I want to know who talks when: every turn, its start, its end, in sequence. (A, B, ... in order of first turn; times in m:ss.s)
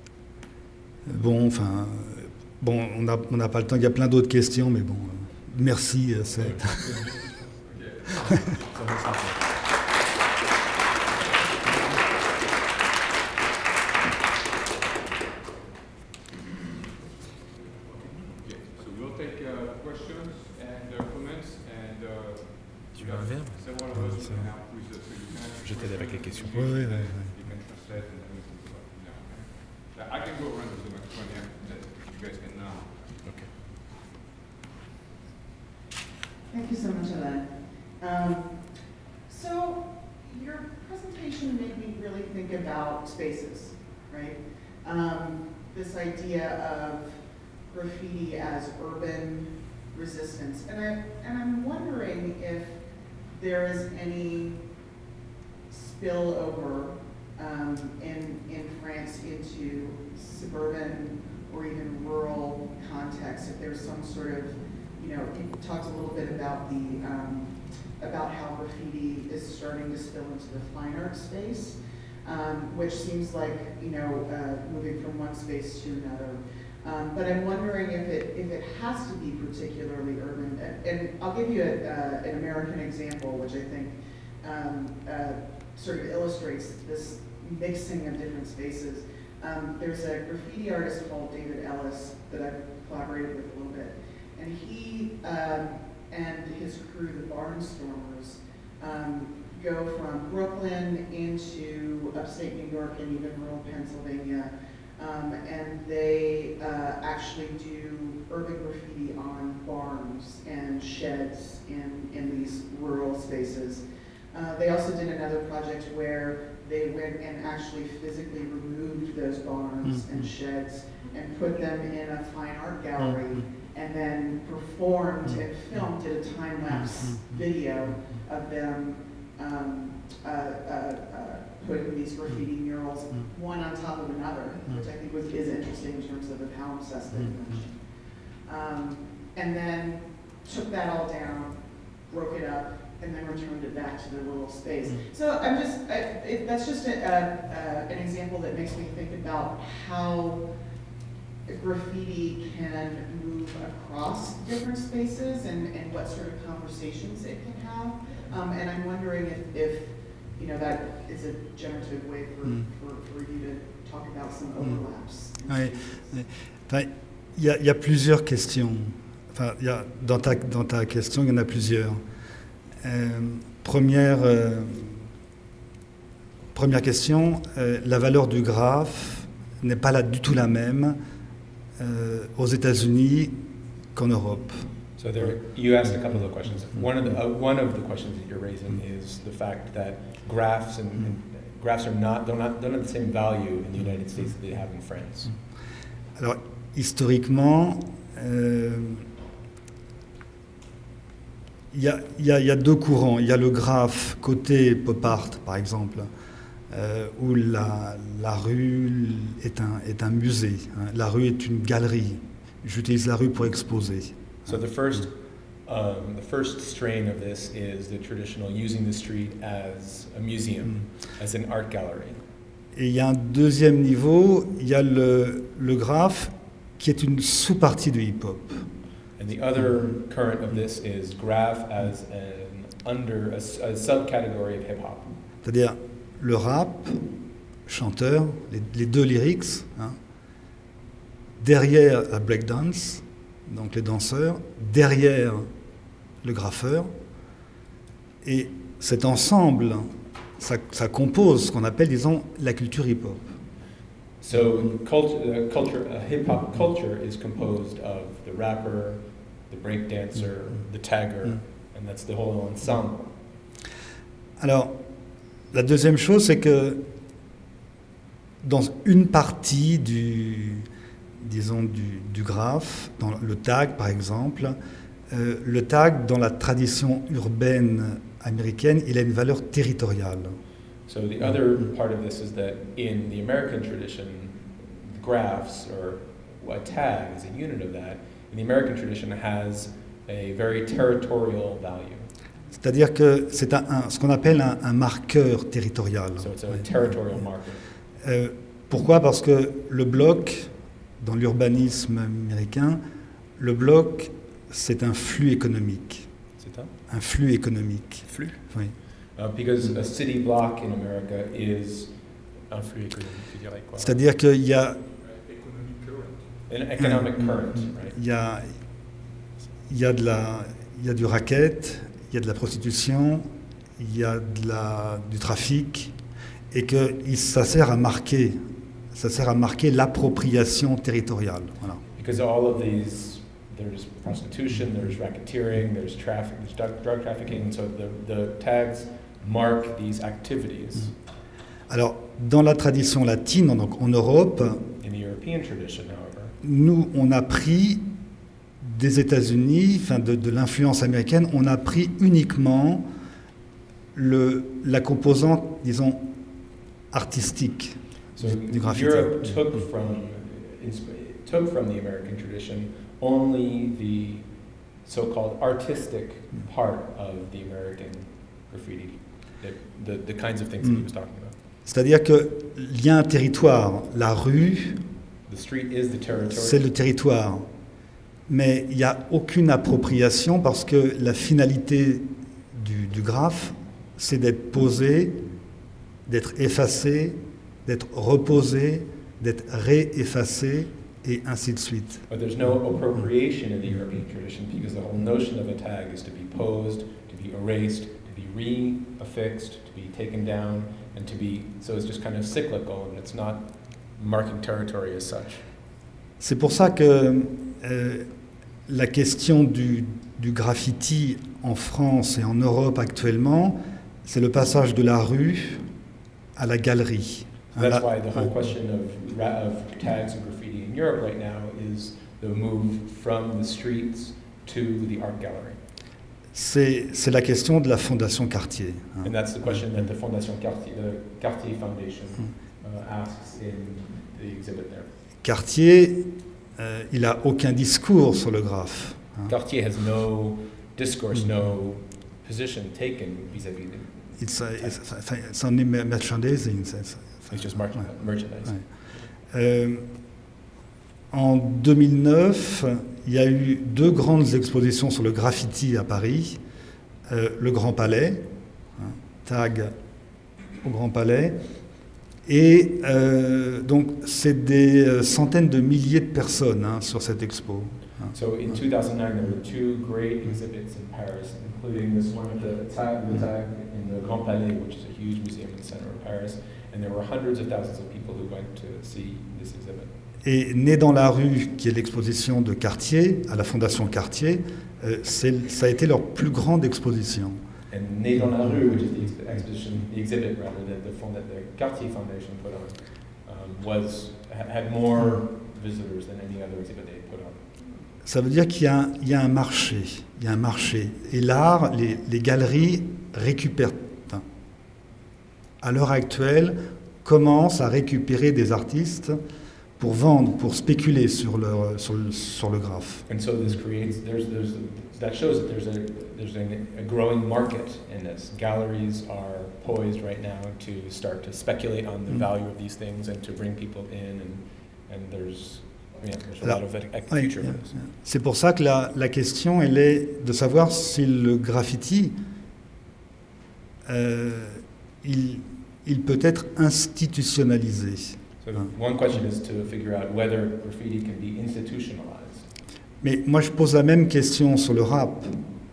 0:01.1-0:06.9 A
0:06.3-0:09.0 B
0:08.7-0:09.5 C
0:17.6-0:33.2 B
0:23.0-0:23.6 C
0:24.0-0:24.3 A
0:25.6-0:26.8 C
0:26.6-0:27.4 A
0:33.2-0:33.5 C
0:36.5-0:38.7 D
0:39.3-0:47.2 D
0:47.7-0:52.8 D
0:53.3-0:54.7 D
0:55.7-2:17.8 D
1:59.9-2:00.3 A
2:06.7-2:07.4 A
2:18.4-2:30.4 D
2:31.5-2:46.1 D
2:45.5-2:52.0 A
2:52.8-2:55.1 A
2:56.5-3:01.0 A
3:01.8-3:03.4 A
3:04.0-3:04.7 A
3:05.0-3:15.3 C
3:16.2-3:19.1 A
3:21.7-3:26.1 A
3:26.7-3:34.6 A
3:34.5-3:42.2 C
3:42.8-3:48.7 A
3:49.2-3:55.1 C
3:55.4-3:57.1 A
3:57.7-4:00.0 A
4:01.4-4:05.5 A
4:06.2-4:06.9 A
4:08.2-4:13.3 A
4:14.2-4:23.1 C
4:24.4-4:24.8 A
4:25.5-4:26.8 A
4:28.4-4:30.7 A
4:31.2-4:34.6 A
4:35.1-4:40.4 A
4:40.9-4:52.1 C
4:52.6-4:56.6 A
4:56.2-4:57.6 C
4:58.0-5:02.8 A
5:03.4-5:06.1 A
5:06.4-5:06.7 C
5:06.9-5:08.8 A
5:08.1-5:12.0 C
5:12.5-5:14.0 C
5:13.8-5:14.8 A
5:15.0-5:16.3 B
5:16.5-5:18.0 C
5:16.8-5:18.6 A
5:19.7-5:25.9 A
5:26.5-5:31.8 A
5:32.0-5:40.9 C
5:41.7-5:44.7 A
5:44.8-5:46.4 C
5:46.4-5:47.9 A
5:48.6-5:52.9 A
5:54.0-5:56.1 A
5:56.9-5:59.4 A
5:58.2-6:04.3 C
6:04.8-6:11.3 C
6:10.6-6:10.9 A
6:11.6-6:14.8 A
6:15.3-6:16.7 C
6:16.3-6:17.5 A
6:18.3-6:25.2 A
6:26.1-6:32.1 A
6:32.1-6:45.4 C
6:46.2-6:48.1 A
6:48.7-6:55.7 A
6:56.4-6:58.5 A
6:57.6-7:05.6 C
7:06.3-7:09.8 A
7:09.0-7:14.9 C
7:15.2-7:19.3 A
7:19.3-7:24.9 C
7:21.2-7:21.4 A
7:24.2-7:28.7 A
7:27.3-7:28.7 C
7:29.3-7:29.9 A
7:31.1-7:36.4 A
7:37.1-7:39.7 A
7:40.6-7:41.5 A
7:42.3-7:48.2 A
7:48.1-7:59.9 C
8:00.2-8:07.4 A
8:07.7-8:17.4 C
8:08.5-8:09.1 A
8:18.0-8:24.2 A
8:25.6-8:29.2 A
8:29.8-8:33.0 A
8:33.1-8:47.8 C
8:46.4-8:52.2 A
8:53.9-8:58.6 A
8:58.4-9:02.5 C
9:03.0-9:05.4 A